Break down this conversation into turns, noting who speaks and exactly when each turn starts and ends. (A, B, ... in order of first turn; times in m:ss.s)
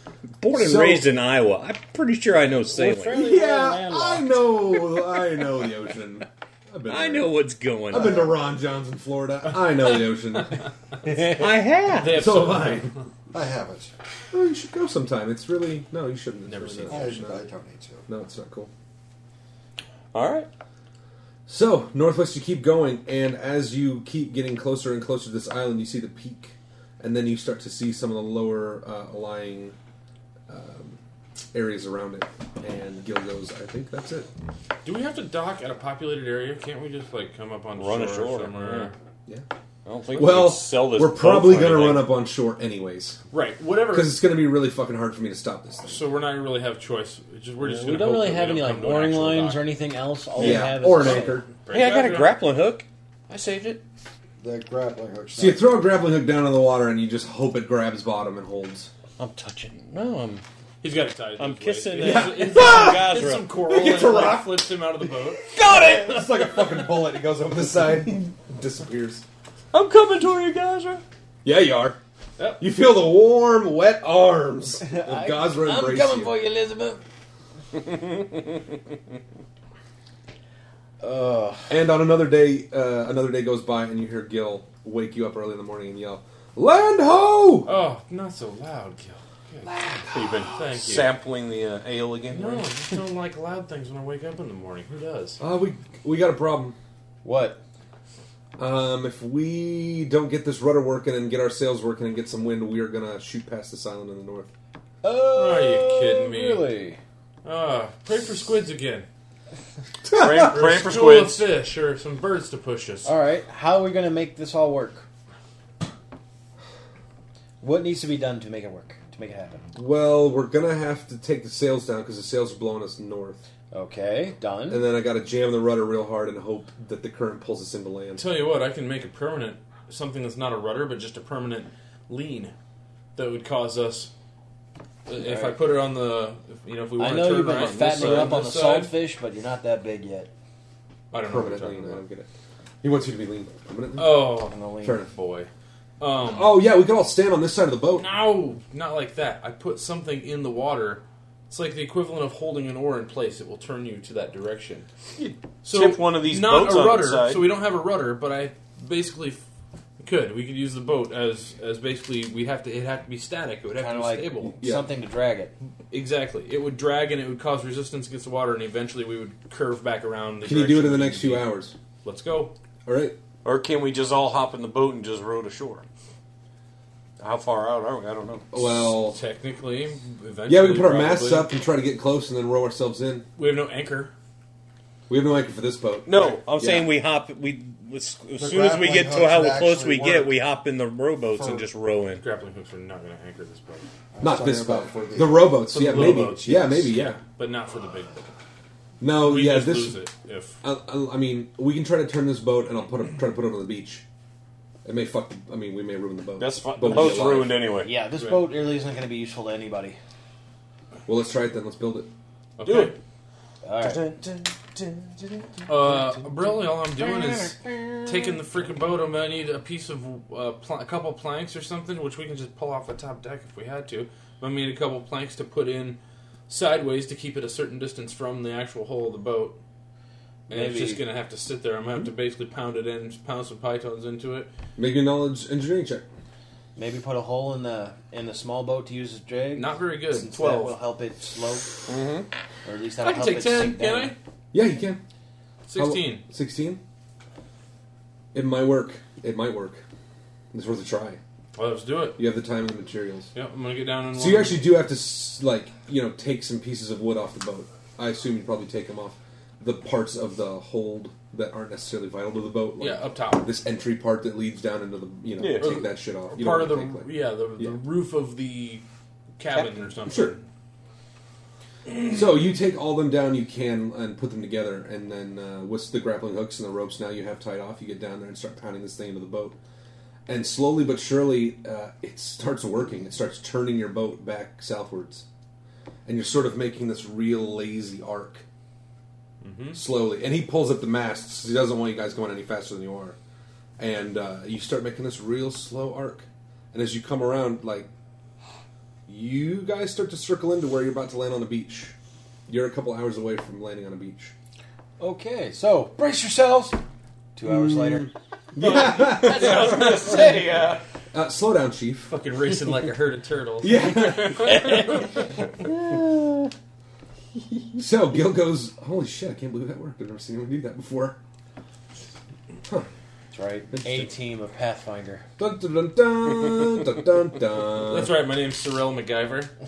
0:00.4-0:03.1 A
0:00.5-0:01.2 B
0:02.7-0:04.6 C
0:03.1-0:10.7 B
0:06.9-0:08.3 A
0:11.1-0:12.2 A
0:11.9-0:12.9 D
0:12.0-0:13.0 B
0:13.3-0:13.9 E
0:14.3-0:17.4 B
0:16.4-0:17.2 D
0:16.9-0:18.1 E
0:18.1-0:18.7 B
0:20.1-0:20.5 A
0:21.5-0:29.8 B
0:30.5-0:31.0 B
0:31.5-0:34.3 B
0:34.8-0:38.9 D
0:37.8-0:38.9 A
0:39.8-0:42.1 A
0:40.1-0:43.2 B
0:43.3-0:44.2 D
0:43.9-0:46.0 B
0:45.8-0:49.7 D
0:47.6-0:51.4 C
0:50.3-0:51.6 B
0:51.0-0:52.4 D
0:51.7-0:53.8 A
0:54.4-0:55.8 E
0:55.4-0:58.9 B
0:59.2-1:00.4 A
1:00.8-1:05.5 D
1:01.4-1:03.5 A
1:02.0-1:04.7 B
1:05.5-1:09.2 B
1:09.7-1:11.0 A
1:11.4-1:12.0 B
1:12.6-1:16.4 B
1:14.8-1:17.0 C
1:21.0-1:21.8 C
1:21.7-1:27.7 B
1:27.6-1:29.7 D
1:30.1-1:30.5 A
1:30.5-1:31.2 D
1:30.7-1:32.7 F
1:32.3-1:35.4 D
1:35.4-1:36.8 B
1:37.2-1:37.6 C
1:38.6-1:44.5 B
1:45.0-1:47.0 C
1:45.3-1:46.7 D
1:47.4-1:49.1 D
1:50.1-1:51.4 F
1:50.2-1:53.1 D
1:53.0-1:55.0 C
1:57.6-1:59.6 C
1:59.7-2:03.4 B
2:03.7-2:04.8 C
2:04.7-2:08.3 B
2:08.2-2:12.5 D
2:13.1-2:14.1 D
2:15.0-2:18.9 D
2:15.2-2:15.6 C
2:17.0-2:20.3 C
2:17.6-2:18.4 F
2:21.1-2:22.0 D
2:21.2-2:22.3 B
2:22.8-2:25.1 B
2:24.0-2:25.5 D
2:24.4-2:25.0 C
2:26.0-2:26.6 D
2:26.2-2:28.1 B
2:27.9-2:34.9 D
2:35.2-2:37.5 F
2:35.6-2:39.4 D
2:40.0-2:44.6 D
2:43.7-2:45.5 C
2:44.5-2:44.9 B
2:45.9-2:51.5 D
2:50.4-2:51.7 B
2:52.0-2:52.5 D
2:52.8-2:53.2 B
2:53.4-2:55.8 F
2:57.2-2:58.5 F
2:58.5-2:59.2 B
2:59.0-3:01.5 D
3:00.5-3:03.2 B
3:03.4-3:04.1 D
3:05.1-3:06.9 B
3:06.0-3:07.0 F
3:06.9-3:12.2 A
3:08.4-3:10.4 E
3:11.3-3:11.7 E
3:12.2-3:13.8 D
3:14.1-3:16.2 E
3:14.2-3:17.2 B
3:15.7-3:18.3 D
3:19.0-3:20.0 B
3:19.2-3:20.6 D
3:20.6-3:24.0 B
3:24.8-3:27.7 B
3:26.4-3:27.9 F
3:27.8-3:30.0 C
3:28.2-3:28.4 D
3:31.0-3:32.1 B
3:32.6-3:33.0 D
3:32.6-3:33.0 F
3:33.6-3:34.1 C
3:33.8-3:36.0 F
3:35.7-3:49.6 D
3:50.5-3:51.0 C
3:50.5-3:54.5 D
3:54.8-3:56.0 B
3:56.8-4:01.7 C
3:59.5-4:00.8 D
4:01.9-4:02.3 F
4:02.6-4:04.1 C
4:03.0-4:04.2 D
4:04.5-4:05.0 B
4:05.7-4:06.2 D
4:05.7-4:06.8 B
4:08.3-4:09.8 B
4:10.5-4:11.2 B
4:11.5-4:12.2 D
4:12.2-4:13.3 B
4:13.3-4:14.8 D
4:14.1-4:27.8 B
4:22.8-4:23.5 D
4:25.4-4:25.8 F
4:25.6-4:28.8 D
4:29.4-4:30.4 D
4:29.5-4:30.4 B
4:31.9-4:39.6 B
4:40.3-4:45.2 B
4:46.0-4:48.4 B
4:49.4-4:49.8 D
4:49.7-4:53.2 B
4:53.8-4:57.9 B
4:59.1-5:01.9 B
5:02.5-5:04.3 B
5:05.0-5:06.8 C
5:07.4-5:08.1 C
5:07.4-5:10.3 B
5:08.6-5:10.5 C
5:08.6-5:10.8 F
5:09.2-5:10.3 D
5:11.1-5:12.1 B
5:12.1-5:15.1 D
5:13.6-5:14.9 B
5:17.7-5:21.2 B
5:23.3-5:25.2 C
5:23.7-5:24.1 B
5:25.4-5:28.2 B
5:27.8-5:29.5 D